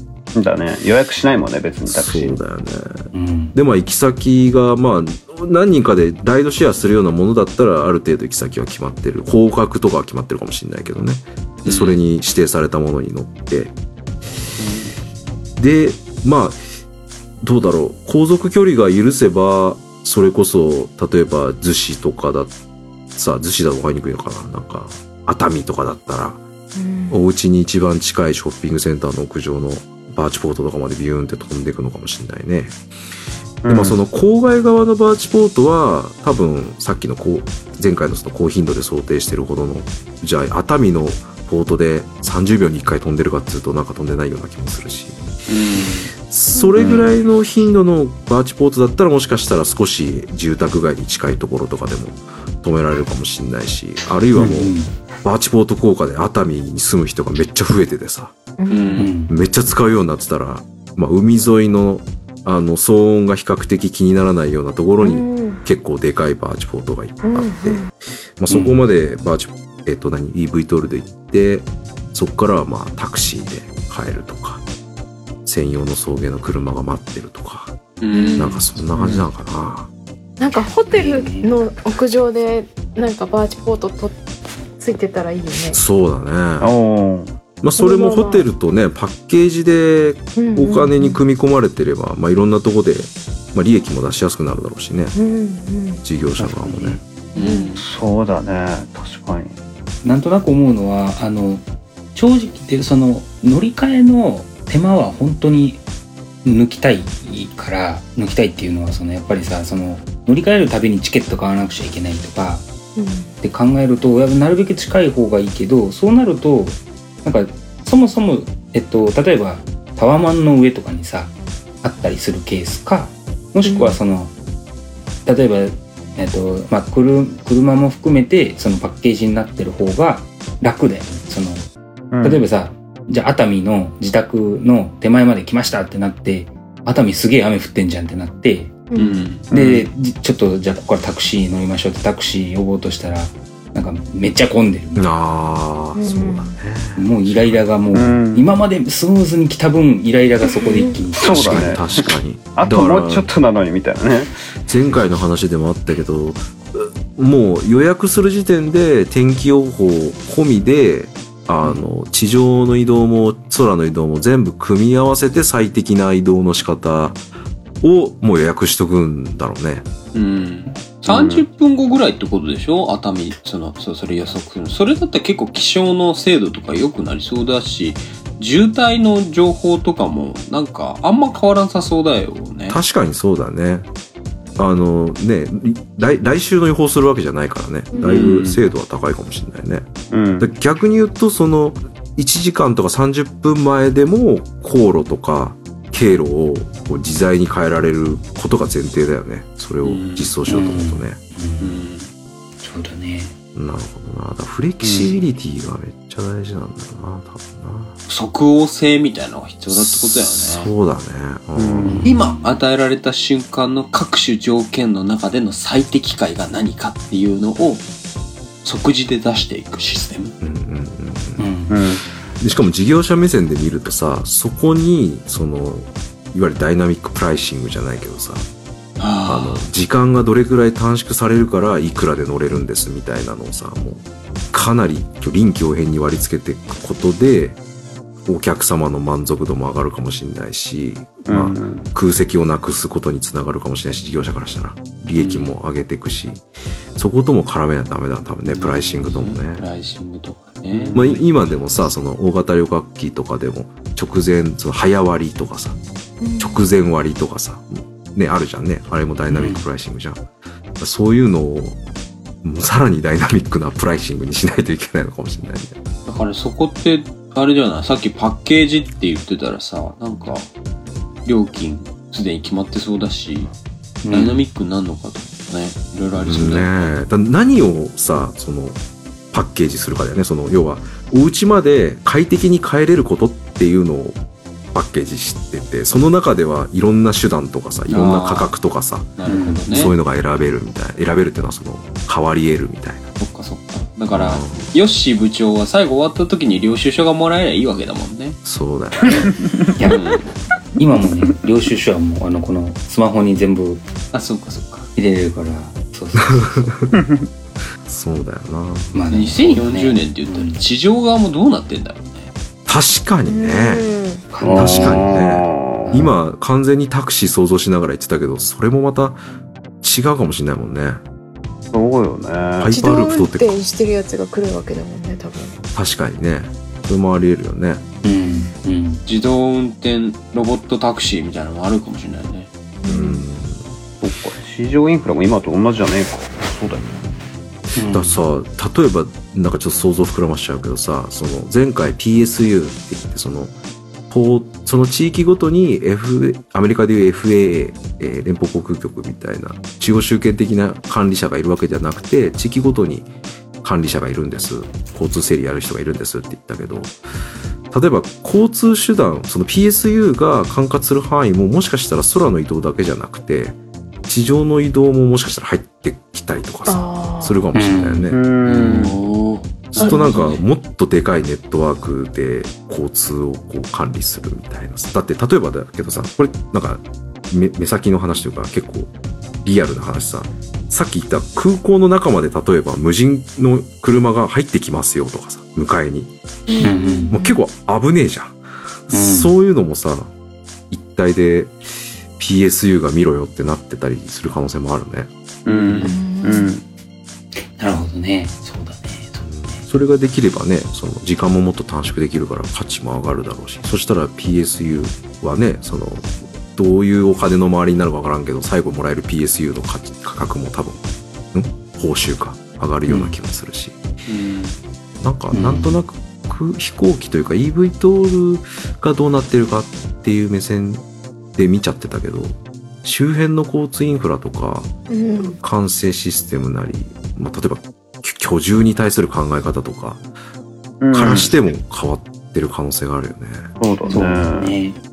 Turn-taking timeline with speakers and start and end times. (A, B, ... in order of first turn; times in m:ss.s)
0:00.3-0:02.4 A
0:01.9-0:13.7 B
0:03.1-0:03.6 C
0:11.6-0:12.0 D
0:14.6-0:15.0 A
0:15.6-0:16.6 B
0:17.4-0:22.5 B
0:23.1-0:26.4 B
0:26.8-0:27.2 E
0:27.1-0:32.8 B
0:33.6-0:34.0 A
0:33.6-0:45.4 B
0:45.5-0:46.1 D
0:46.2-0:54.7 B
0:46.5-0:46.8 E
0:54.3-0:54.9 C
0:55.2-0:58.3 B
0:58.6-0:59.1 E
0:58.7-0:59.1 D
0:59.0-0:59.3 C
0:59.3-1:14.6 B
1:05.0-1:05.6 E
1:07.2-1:07.9 E
1:08.5-1:08.8 C
1:15.4-1:17.8 B
1:18.0-1:18.6 D
1:18.1-1:18.7 E
1:18.4-1:19.9 B
1:18.9-1:19.2 A
1:20.4-1:24.2 E
1:20.9-1:21.6 C
1:24.8-1:25.8 E
1:25.7-1:26.7 B
1:26.6-1:27.3 A
1:27.6-1:35.1 B
1:27.8-1:28.5 E
1:30.4-1:31.2 E
1:35.1-1:36.0 E
1:36.0-1:37.0 B
1:36.4-1:36.9 A
1:36.6-1:37.0 C
1:37.3-1:37.8 D
1:37.4-1:37.8 E
1:37.8-1:39.5 A
1:40.0-1:41.6 C
1:42.1-1:45.8 C
1:46.4-1:52.6 C
1:53.0-1:53.3 E
1:53.4-2:04.3 C
2:03.6-2:04.0 E
2:05.2-2:11.7 C
2:12.1-2:12.4 A
2:12.2-2:18.7 C
2:18.9-2:19.2 E
2:18.9-2:19.5 D
2:19.5-2:19.9 A
2:19.5-2:25.1 C
2:24.9-2:27.6 B
2:25.9-2:26.6 E
2:27.0-2:31.7 C
2:27.9-2:28.5 A
2:30.5-2:31.0 E
2:31.1-2:32.0 A
2:31.2-2:33.3 B
2:32.6-2:34.3 A
2:34.7-2:47.2 B
2:47.8-2:49.8 B
2:50.1-3:02.8 D
2:51.1-2:51.4 A
3:02.7-3:03.9 B
3:04.6-3:09.8 B
3:07.9-3:08.3 E
3:08.0-3:08.6 D
3:10.1-3:10.5 A
3:10.4-3:21.2 B
3:19.8-3:20.4 D
3:20.5-3:21.9 C
3:21.6-3:22.1 D
3:22.6-3:23.3 C
3:23.5-3:27.9 B
3:24.8-3:25.2 A
3:28.1-3:30.7 D
3:29.7-3:32.1 B
3:31.6-3:32.1 A
3:31.8-3:32.4 C
3:32.0-3:37.8 D
3:38.6-3:40.3 D
3:40.4-3:41.4 B
3:41.4-3:41.8 C
3:41.7-3:42.0 A
3:42.4-3:48.4 B
3:49.0-3:49.7 D
3:49.3-3:57.6 B
3:58.2-4:06.4 B
4:01.3-4:01.9 A
4:05.2-4:05.5 D
4:07.0-4:09.6 B
4:08.5-4:11.2 D
4:10.7-4:11.1 A
4:10.9-4:15.8 B
4:16.2-4:16.6 E
4:16.4-4:20.2 B
4:19.3-4:19.6 C
4:20.8-4:21.8 B
4:22.4-4:25.7 B
4:26.0-4:30.5 D
4:31.2-4:33.5 D
4:34.0-4:34.4 C
4:34.1-4:37.0 D
4:36.1-4:38.8 B
4:39.3-4:44.2 B
4:44.7-4:53.0 B
4:47.9-4:48.5 D
4:49.2-4:49.9 D
4:49.2-4:49.6 C
4:53.2-4:58.4 D
4:54.1-4:54.7 B
4:58.4-4:59.3 B
4:59.0-4:59.5 A
4:59.8-5:00.3 D
5:00.8-5:03.8 C
5:04.1-5:04.9 D
5:05.0-5:06.7 C
5:06.2-5:06.9 B
5:06.9-5:07.3 A
5:07.8-5:09.0 B
5:08.9-5:10.6 C
5:09.1-5:12.3 D
5:12.7-5:13.8 B
5:13.2-5:14.3 E
5:14.3-5:15.2 C
5:14.4-5:16.0 A
5:14.5-5:19.2 B
5:15.9-5:16.1 C
5:19.8-5:21.0 B
5:21.7-5:22.8 A
5:22.6-5:23.6 B
5:22.7-5:25.6 E
5:25.7-5:27.8 B
5:28.0-5:29.0 C
5:28.2-5:28.5 E
5:29.0-5:32.5 D
5:32.8-5:33.2 E
5:32.8-5:33.6 B
5:34.0-5:37.1 A
5:37.8-5:38.2 C
5:37.9-5:43.5 B
5:44.1-5:53.1 B
5:53.6-5:56.9 B
5:57.7-6:03.6 B
6:04.1-6:08.2 B
6:06.6-6:07.5 E
6:07.5-6:08.9 C
6:08.1-6:09.0 A
6:08.5-6:10.4 D
6:09.7-6:18.9 B
6:09.8-6:10.2 E
6:19.4-6:26.1 B
6:26.5-6:27.4 E
6:26.6-6:27.1 C
6:27.1-6:28.4 B
6:28.9-6:30.1 B
6:28.9-6:29.3 C
6:30.7-6:31.6 B
6:32.2-6:35.1 B
6:35.4-6:36.6 A
6:35.5-6:35.8 D
6:35.8-6:36.5 E
6:37.4-6:39.6 C
6:39.2-6:50.8 B
6:51.3-6:53.8 B
6:52.9-6:53.1 C
6:54.1-6:54.6 D
6:55.0-7:00.8 B
6:55.3-6:55.8 C
7:01.4-7:10.0 B
7:04.9-7:05.4 E
7:10.8-7:11.3 A
7:10.9-7:13.5 B
7:13.6-7:14.6 A
7:13.9-7:14.8 C